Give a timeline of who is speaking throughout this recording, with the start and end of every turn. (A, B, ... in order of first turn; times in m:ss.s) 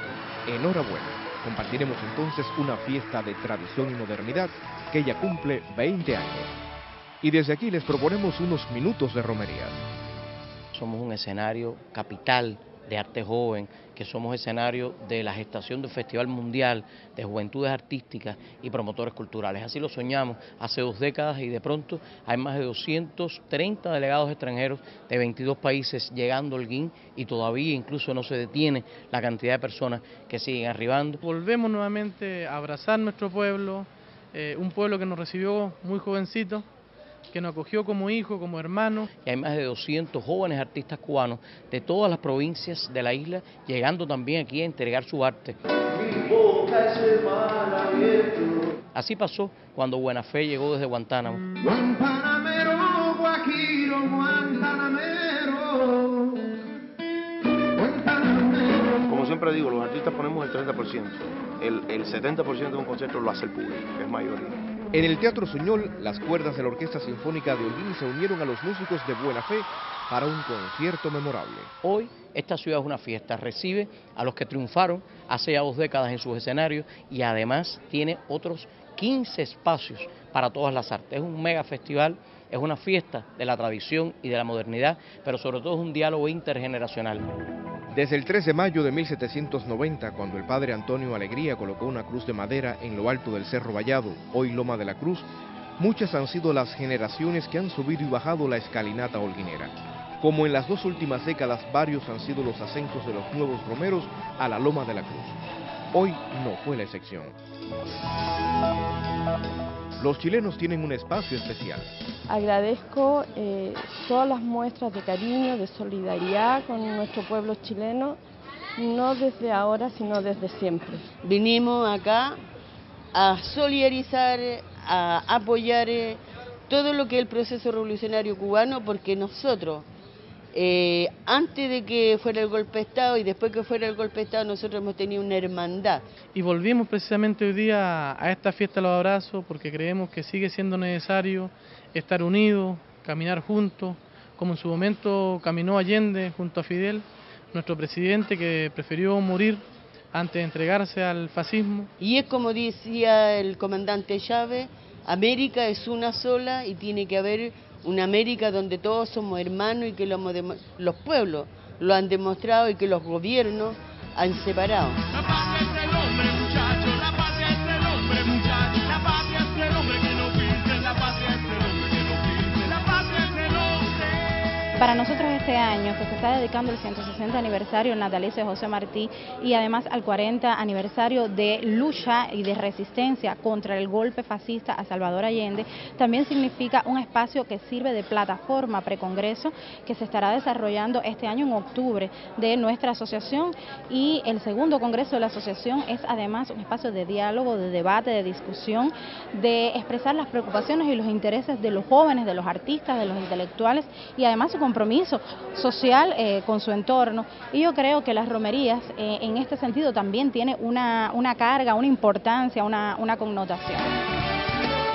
0:00.4-0:06.5 A
0:07.2-0:09.8 A
0:10.7-0:31.2 B
0:31.2-0:36.7 C
0:37.3-0:39.1 C
0:39.2-0:45.6 B
0:46.1-0:48.6 D
0:48.9-0:51.4 B
0:51.6-0:56.3 E
0:57.8-1:04.6 E
1:04.9-1:11.7 A
1:11.8-1:27.2 B
1:27.9-1:35.3 A
1:35.8-1:45.4 A
1:45.9-1:47.3 A
1:50.0-1:51.9 A
1:52.3-1:58.2 F
1:58.8-2:01.1 F
2:01.2-2:02.4 D
2:03.1-2:09.9 D
2:10.5-2:16.0 D
2:16.3-2:31.9 C
2:32.0-2:45.0 D
2:45.2-2:54.2 C
2:54.8-3:33.9 G